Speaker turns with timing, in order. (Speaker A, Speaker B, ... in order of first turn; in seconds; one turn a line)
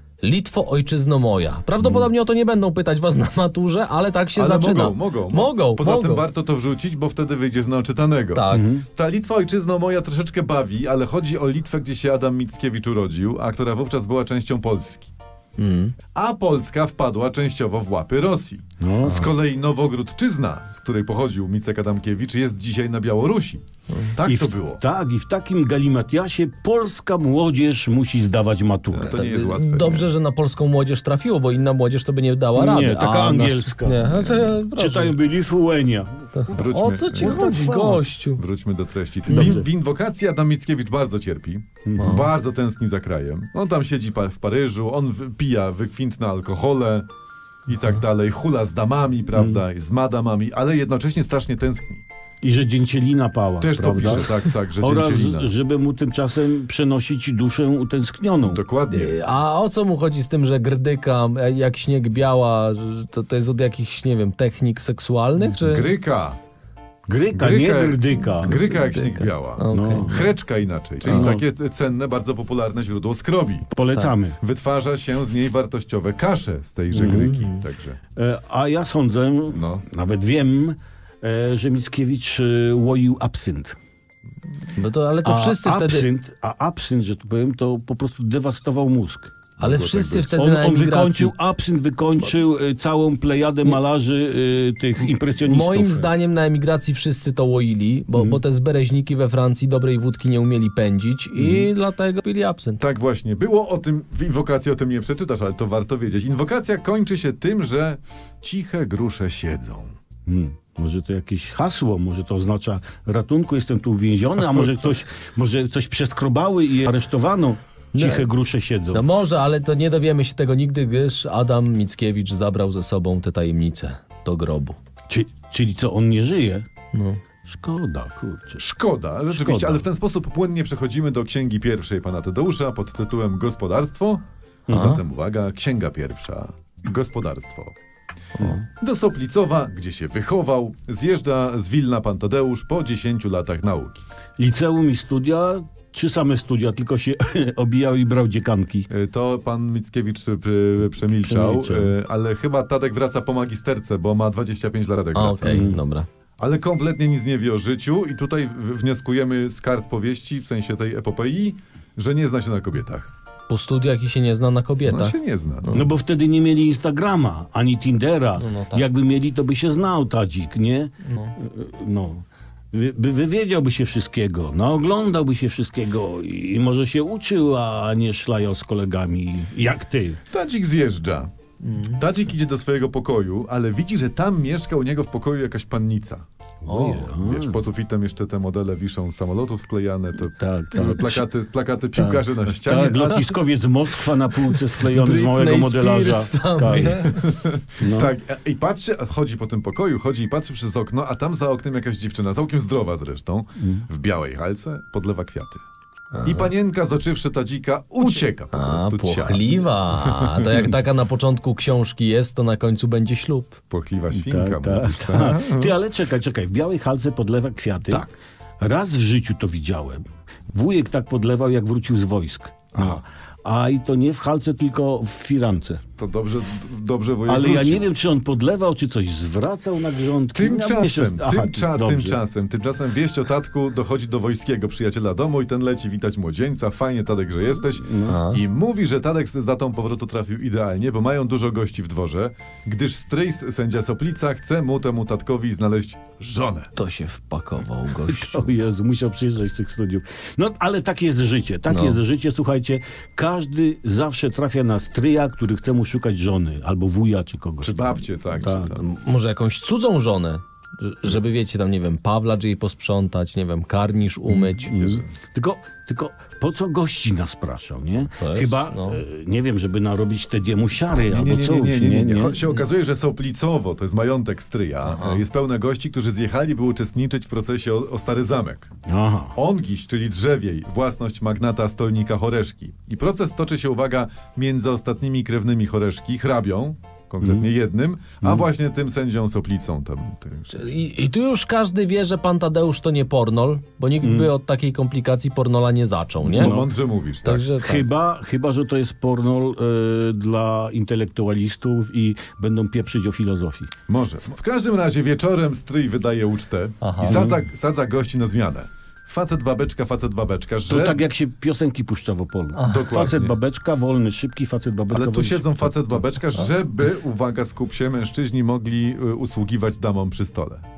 Speaker A: 0.2-6.2
Speaker B: 1.8-2.1
Speaker C: 4.3-15.1
Speaker A: 8.3-8.7
Speaker B: 8.5-8.8
Speaker A: 15.6-15.9
Speaker C: 16.1-23.6
Speaker B: 18.8-19.3
Speaker C: 24.1-24.8
Speaker B: 24.2-29.3
Speaker C: 28.9-30.1
Speaker A: 29.1-35.1
Speaker B: 32.5-34.1
Speaker C: 34.0-34.6
Speaker B: 34.7-36.6
Speaker A: 36.3-38.4
Speaker C: 36.5-37.5
Speaker B: 37.2-38.0
Speaker C: 38.4-47.1
Speaker B: 39.3-39.7
Speaker B: 41.8-42.3
Speaker A: 42.0-42.3
Speaker C: 47.7-52.0
Speaker B: 49.3-49.6
Speaker B: 52.4-58.6
Speaker C: 53.6-55.5
Speaker C: 58.5-59.2
Speaker A: 58.9-65.9
Speaker C: 65.4-66.4
Speaker B: 67.1-68.6
Speaker C: 67.3-73.7
Speaker A: 68.4-70.1
Speaker B: 69.7-70.3
Speaker B: 71.0-71.4
Speaker B: 73.7-74.4
Speaker C: 74.4-78.0
Speaker B: 76.9-77.3
Speaker A: 77.0-77.6
Speaker B: 78.2-83.8
Speaker C: 79.5-79.8
Speaker A: 84.8-86.1
Speaker B: 85.2-89.3
Speaker C: 89.6-90.3
Speaker A: 89.6-91.3
Speaker B: 90.3-96.1
Speaker A: 95.0-102.8
Speaker B: 98.1-98.4
Speaker B: 101.4-101.7
Speaker C: 102.8-109.9
Speaker B: 110.2-119.1
Speaker A: 117.9-118.3
Speaker A: 118.9-124.8
Speaker B: 125.1-126.7
Speaker A: 126.9-127.2
Speaker B: 127.5-128.6
Speaker C: 128.6-137.7
Speaker B: 129.3-129.8
Speaker B: 134.7-135.0
Speaker C: 138.7-144.0
Speaker B: 144.4-148.9
Speaker C: 148.9-155.7
Speaker B: 151.2-151.9
Speaker A: 155.1-156.1
Speaker B: 155.4-155.8
Speaker C: 156.4-163.1
Speaker A: 163.5-165.8
Speaker C: 164.8-165.8
Speaker B: 165.7-180.2
Speaker A: 168.4-168.8
Speaker A: 171.1-171.3
Speaker C: 180.3-181.3
Speaker A: 181.6-182.1
Speaker C: 181.9-186.2
Speaker B: 186.6-187.6
Speaker A: 186.7-187.1
Speaker C: 187.1-193.3
Speaker B: 190.4-191.3
Speaker B: 191.9-197.0
Speaker A: 194.9-197.2
Speaker C: 196.6-205.6
Speaker B: 197.8-198.1
Speaker B: 203.6-203.8
Speaker A: 206.1-206.5
Speaker C: 206.2-210.5
Speaker A: 208.5-213.6
Speaker C: 213.7-215.7
Speaker B: 214.1-218.1
Speaker B: 218.6-225.8
Speaker C: 222.7-223.0
Speaker C: 226.0-227.8
Speaker B: 227.2-232.2
Speaker C: 230.3-246.7
Speaker B: 237.6-238.2
Speaker A: 238.1-238.4
Speaker A: 246.8-248.5
Speaker B: 248.0-258.7
Speaker A: 251.7-252.0
Speaker C: 257.6-258.9
Speaker A: 258.6-265.0
Speaker B: 264.3-272.4
Speaker A: 268.2-269.0
Speaker C: 271.0-278.7
Speaker A: 274.8-275.2
Speaker B: 278.9-279.3
Speaker C: 279.3-290.7
Speaker B: 287.2-287.5
Speaker A: 290.5-296.6
Speaker B: 294.0-294.3
Speaker C: 296.2-297.4
Speaker B: 296.3-296.7
Speaker A: 297.2-297.9
Speaker B: 297.6-303.7
Speaker C: 303.9-311.0
Speaker A: 306.8-307.2
Speaker B: 307.0-307.4
Speaker B: 310.7-316.1
Speaker A: 312.5-313.1
Speaker C: 312.6-313.4
Speaker C: 314.9-320.6